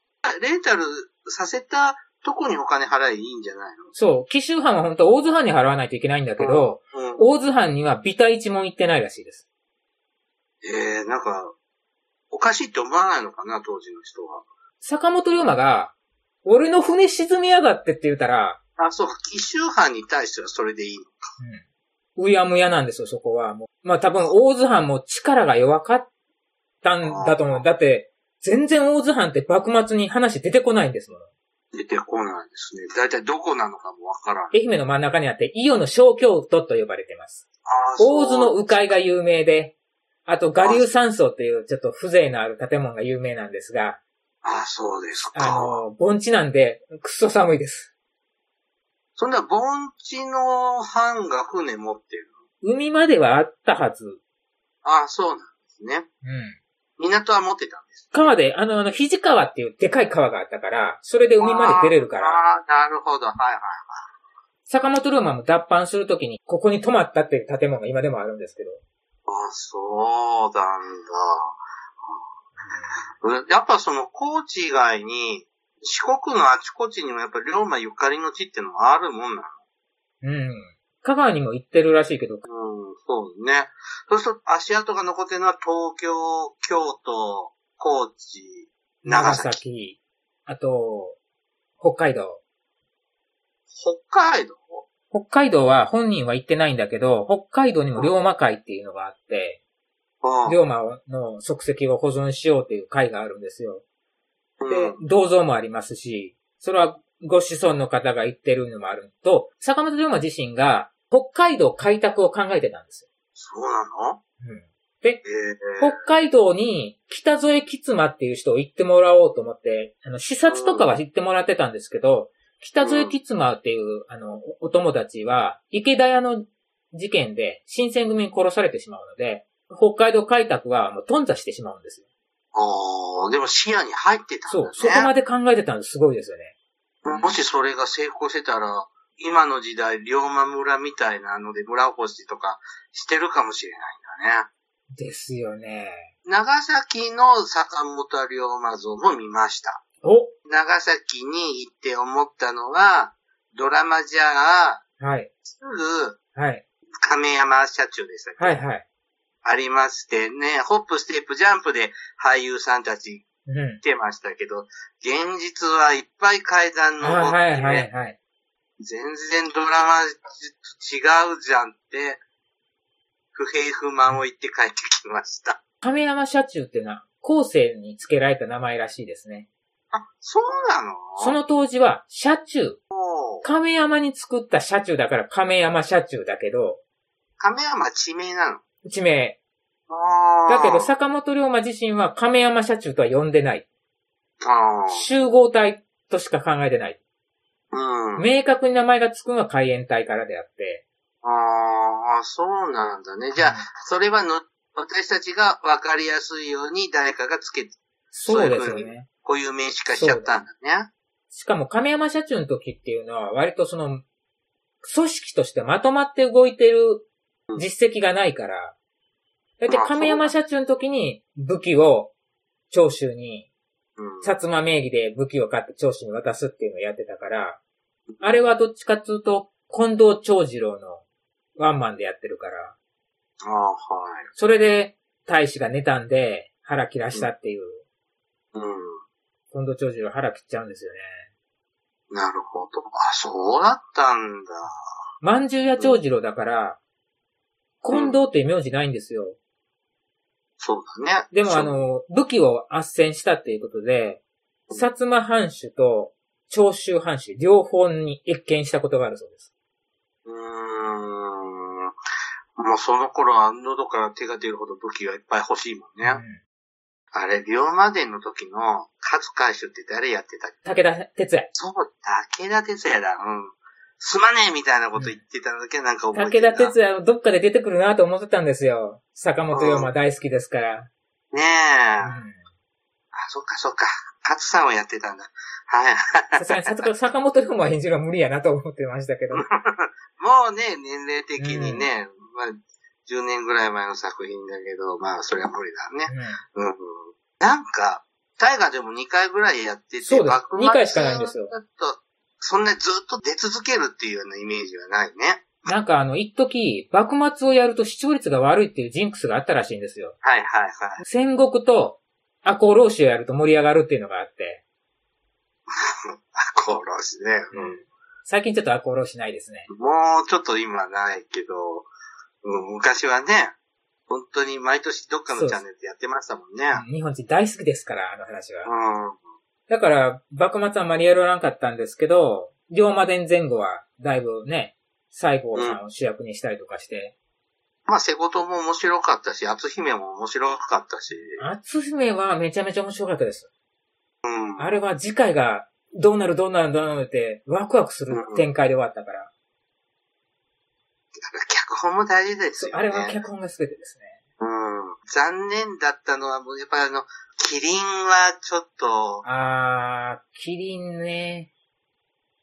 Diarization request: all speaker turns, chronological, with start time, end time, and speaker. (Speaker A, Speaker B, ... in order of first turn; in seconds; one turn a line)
Speaker A: 0.2-3.9
Speaker B: 3.9-9.4
Speaker A: 6.4-7.3
Speaker A: 10.6-11.5
Speaker A: 12.3-14.4
Speaker B: 14.8-18.6
Speaker A: 18.8-21.3
Speaker B: 22.2-26.1
Speaker B: 26.8-31.3
Speaker A: 27.0-27.6
Speaker A: 31.7-34.5
Speaker B: 34.5-37.4
Speaker A: 37.6-38.9
Speaker B: 38.0-44.0
Speaker A: 40.6-40.9
Speaker A: 44.4-45.8
Speaker B: 45.3-47.9
Speaker A: 49.2-52.4
Speaker B: 52.6-54.2
Speaker A: 54.8-56.1
Speaker B: 56.2-56.6
Speaker A: 57.0-58.3
Speaker B: 58.1-62.4
Speaker A: 61.4-64.1
Speaker B: 64.7-68.8
Speaker A: 69.3-72.2
Speaker B: 72.6-72.9
Speaker A: 73.2-79.5
Speaker B: 80.2-82.4
Speaker A: 82.5-89.6
Speaker B: 89.0-91.2
Speaker B: 91.8-92.4
Speaker A: 93.7-94.8
Speaker B: 95.1-99.6
Speaker A: 100.2-100.6
Speaker B: 100.4-103.8
Speaker A: 104.6-105.0
Speaker B: 104.7-113.0
Speaker A: 113.3-114.2
Speaker B: 114.4-115.2
Speaker A: 115.2-116.0
Speaker B: 115.8-132.0
Speaker A: 120.5-120.9
Speaker A: 122.8-123.2
Speaker A: 132.5-135.1
Speaker B: 134.5-136.5
Speaker A: 137.0-144.5
Speaker B: 137.1-137.4
Speaker B: 144.9-146.1
Speaker A: 146.2-149.8
Speaker B: 150.0-150.3
Speaker A: 150.4-154.8
Speaker B: 155.0-155.3
Speaker A: 155.4-156.2
Speaker B: 156.3-156.6
Speaker A: 157.0-158.6
Speaker B: 158.4-158.8
Speaker A: 159.4-163.2
Speaker B: 163.5-163.8
Speaker A: 163.8-167.9
Speaker B: 167.0-168.2
Speaker A: 168.8-172.2
Speaker A: 173.3-175.6
Speaker B: 175.8-179.5
Speaker A: 179.9-181.4
Speaker B: 181.2-182.8
Speaker A: 182.9-183.5
Speaker B: 183.4-186.8
Speaker A: 187.4-188.6
Speaker B: 188.8-189.4
Speaker A: 189.9-190.9
Speaker B: 190.5-193.7
Speaker A: 194.4-195.1
Speaker B: 194.9-197.0
Speaker A: 197.7-198.2
Speaker B: 198.2-200.8
Speaker A: 201.2-207.8
Speaker B: 203.4-203.7
Speaker B: 208.1-209.1
Speaker A: 208.3-210.9
Speaker B: 209.9-210.4
Speaker B: 211.3-214.0
Speaker B: 214.8-218.7
Speaker B: 219.6-222.1
Speaker A: 219.7-220.3
Speaker B: 222.7-223.5
Speaker A: 224.0-224.3
Speaker B: 224.2-227.6
Speaker A: 228.1-228.5
Speaker B: 228.2-231.0
Speaker B: 231.6-232.7
Speaker A: 233.4-234.3
Speaker B: 234.4-237.8
Speaker A: 238.5-239.0
Speaker B: 239.5-241.2
Speaker A: 242.1-244.7
Speaker B: 245.2-246.8
Speaker B: 247.8-249.4
Speaker A: 250.6-251.7
Speaker B: 251.3-254.2
Speaker B: 254.7-259.4
Speaker A: 260.2-261.9
Speaker A: 262.6-266.2
Speaker B: 266.0-266.4
Speaker A: 267.1-270.6
Speaker B: 270.6-271.5
Speaker A: 271.5-276.7
Speaker B: 276.1-280.9
Speaker A: 279.5-279.9
Speaker A: 281.3-282.2
Speaker B: 282.0-282.4
Speaker A: 283.1-286.8
Speaker B: 286.4-289.4
Speaker A: 289.3-305.7
Speaker B: 291.4-291.9
Speaker B: 296.1-296.4
Speaker B: 300.0-301.5
Speaker B: 305.7-310.1
Speaker A: 310.2-311.0
Speaker B: 311.0-314.6
Speaker A: 315.7-317.8
Speaker B: 317.5-319.7
Speaker A: 319.7-321.9
Speaker A: 322.4-323.5
Speaker A: 324.1-326.8
Speaker B: 325.3-325.6
Speaker B: 326.7-328.7
Speaker A: 328.6-329.2
Speaker B: 329.7-337.1
Speaker A: 335.5-335.8
Speaker A: 337.9-341.4
Speaker B: 341.4-343.5
Speaker A: 344.2-344.8
Speaker B: 344.6-349.3
Speaker A: 348.1-348.5
Speaker A: 351.2-353.2
Speaker B: 352.6-354.1
Speaker A: 354.4-359.2
Speaker B: 359.2-361.5